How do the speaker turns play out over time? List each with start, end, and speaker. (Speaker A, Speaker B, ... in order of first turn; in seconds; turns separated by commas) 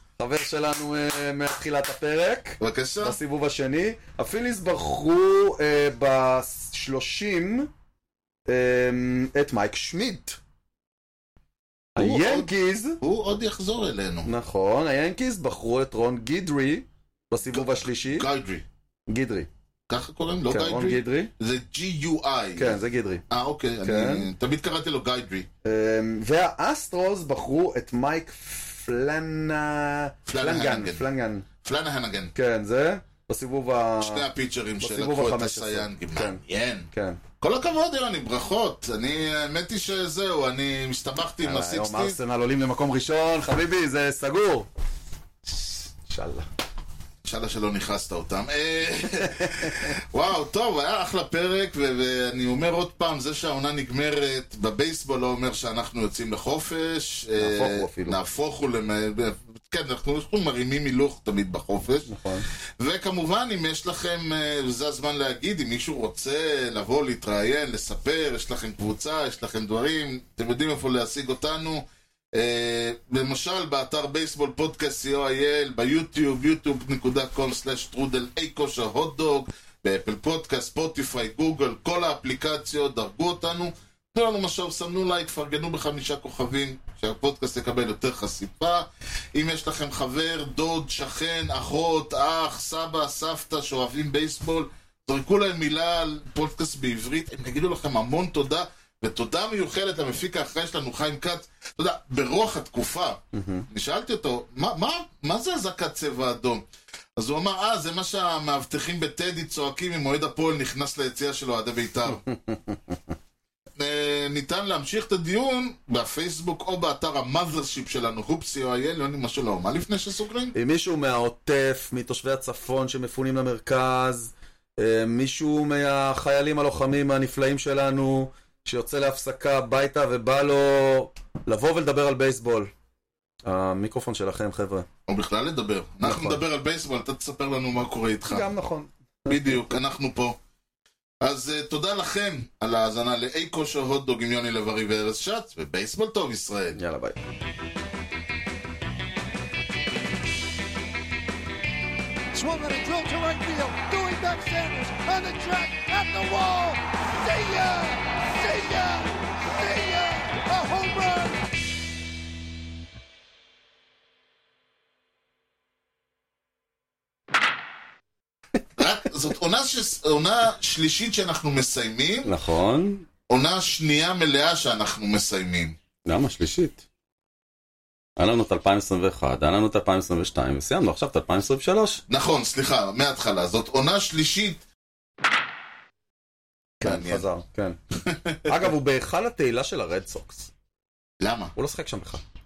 Speaker A: 0.2-7.7, Speaker B: 2.6-3.2, Speaker A: 8.5-10.4, Speaker A: 12.0-13.0, Speaker B: 12.0-12.5, Speaker B: 13.0-14.3, Speaker A: 14.2-18.3, Speaker B: 17.5-18.6, Speaker A: 19.1-19.5, Speaker B: 19.9-22.8, Speaker A: 20.5-21.3, Speaker A: 22.6-23.2, Speaker B: 23.3-25.5, Speaker A: 23.8-24.3, Speaker A: 25.6-31.5, Speaker B: 30.3-31.1, Speaker B: 31.6-32.3, Speaker A: 32.3-34.3, Speaker B: 34.0-36.9, Speaker A: 34.8-36.4, Speaker A: 36.9-37.2, Speaker B: 37.4-42.2, Speaker A: 41.4-44.7, Speaker A: 45.5-46.5, Speaker B: 47.2-62.1, Speaker A: 49.4-49.9, Speaker A: 57.4-58.2, Speaker A: 62.1-62.5, Speaker B: 62.8-106.6, Speaker A: 103.3-103.7, Speaker B: 107.2-112.2, Speaker A: 112.2-113.0, Speaker B: 113.8-120.5, Speaker A: 120.5-132.7, Speaker A: 133.4-134.9, Speaker B: 135.1-138.5, Speaker A: 136.0-136.4, Speaker A: 138.3-139.7, Speaker B: 139.3-140.4, Speaker B: 141.2-146.8, Speaker A: 146.8-147.2, Speaker C: 152.3-161.4, Speaker B: 168.8-172.3, Speaker A: 172.2-173.1, Speaker B: 173.3-175.8, Speaker A: 176.1-176.8, Speaker A: 178.2-182.0, Speaker B: 182.1-184.6, Speaker A: 186.8-187.8, Speaker B: 186.8-187.2, Speaker B: 188.0-188.8, Speaker A: 188.5-190.5, Speaker B: 191.2-191.5, Speaker A: 191.6-192.2